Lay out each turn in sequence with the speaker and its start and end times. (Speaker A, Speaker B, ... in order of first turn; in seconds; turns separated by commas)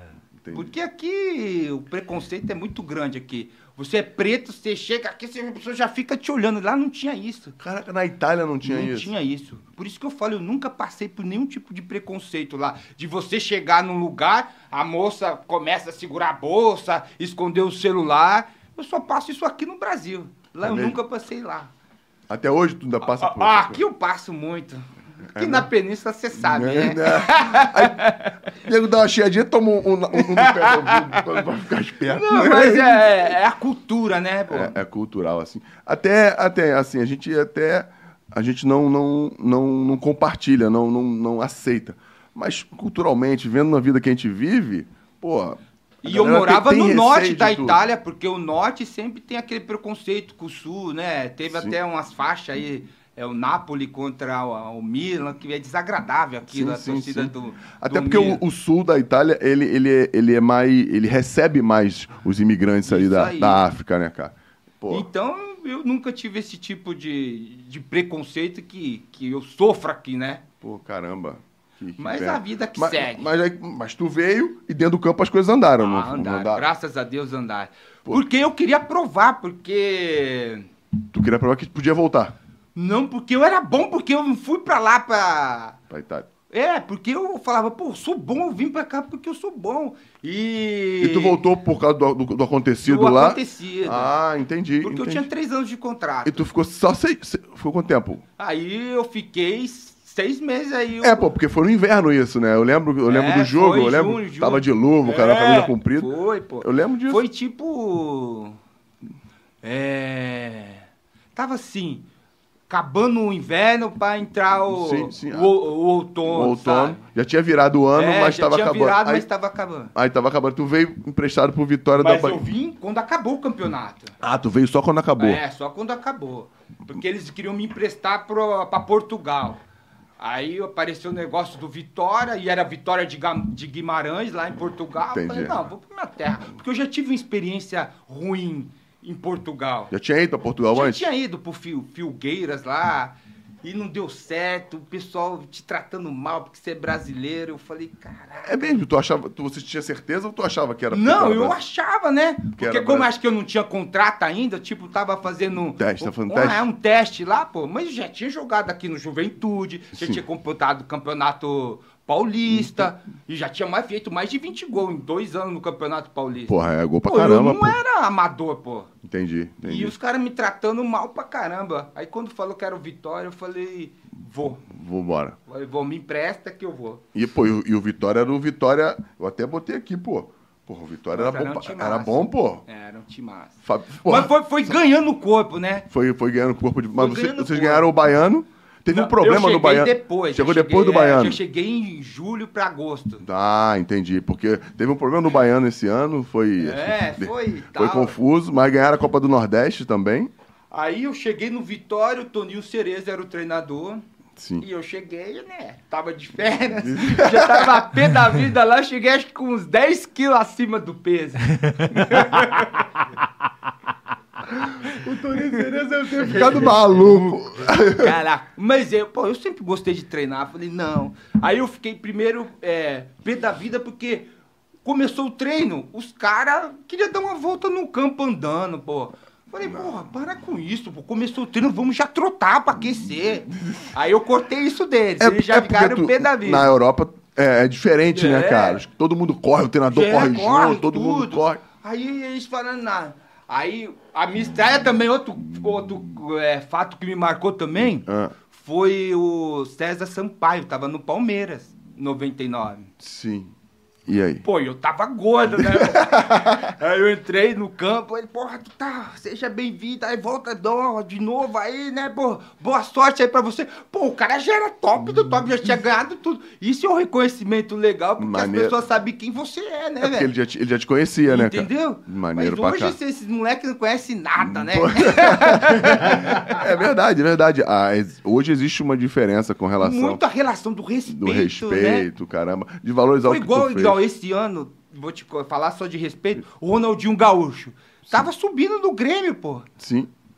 Speaker A: 0.4-0.7, Speaker B: 0.5-7.5, Speaker A: 7.6-9.1, Speaker B: 8.6-21.7, Speaker A: 20.6-21.0, Speaker A: 22.3-23.8, Speaker B: 23.0-28.3, Speaker A: 25.3-25.7, Speaker A: 26.4-33.3, Speaker B: 30.1-31.4, Speaker B: 32.1-34.7, Speaker A: 34.5-47.8, Speaker B: 46.0-58.4, Speaker A: 51.5-51.8, Speaker A: 56.5-65.1, Speaker B: 62.9-63.6, Speaker B: 64.9-70.4, Speaker A: 70.6-76.6, Speaker B: 72.0-73.3, Speaker B: 75.8-80.7, Speaker A: 81.1-82.3, Speaker B: 82.7-85.8, Speaker A: 85.9-86.3, Speaker B: 86.5-91.4, Speaker A: 91.0-95.3, Speaker B: 92.8-94.1, Speaker B: 94.8-96.4, Speaker A: 96.2-98.2, Speaker B: 98.4-101.3, Speaker A: 101.0-107.2, Speaker B: 103.0-108.6, Speaker B: 109.6-112.0, Speaker B: 112.7-117.0, Speaker A: 114.7-115.6, Speaker A: 116.2-119.2, Speaker B: 117.9-119.9, Speaker A: 119.9-122.4, Speaker B: 122.0-124.1, Speaker A: 124.2-125.4, Speaker B: 125.2-129.6, Speaker B: 130.2-139.9, Speaker A: 135.1-135.6, Speaker A: 139.9-141.1, Speaker B: 140.7-148.8, Speaker A: 148.4-151.6, Speaker B: 150.9-168.9, Speaker A: 152.6-153.1, Speaker A: 155.8-156.7, Speaker A: 159.9-160.2, Speaker A: 162.5-162.9, Speaker A: 166.5-167.8, Speaker A: 169.0-169.9, Speaker B: 169.6-174.7, Speaker A: 174.7-175.4, Speaker B: 175.5-177.0, Speaker A: 177.1-182.6, Speaker B: 181.1-185.9, Speaker A: 183.6-184.7, Speaker A: 185.9-191.4, Speaker B: 186.9-187.9, Speaker B: 188.9-193.2, Speaker A: 193.2-200.3, Speaker B: 196.6-198.1, Speaker B: 200.7-204.0, Speaker A: 204.4-204.6, Speaker B: 204.6-212.9, Speaker A: 206.8-207.8, Speaker A: 214.5-218.1, Speaker B: 216.2-224.3, Speaker B: 224.8-236.7, Speaker A: 229.6-229.9, Speaker A: 233.2-233.9, Speaker A: 235.2-241.6, Speaker B: 238.1-238.8, Speaker B: 239.9-252.9, Speaker A: 247.8-248.3, Speaker A: 253.0-253.5, Speaker A: 254.1-254.4, Speaker B: 254.4-270.3, Speaker A: 255.6-256.7, Speaker A: 268.2-268.8, Speaker A: 270.0-273.0, Speaker B: 271.3-276.6, Speaker A: 274.4-280.2, Speaker B: 279.8-282.1, Speaker A: 281.1-284.0, Speaker B: 283.3-289.7, Speaker A: 289.8-290.1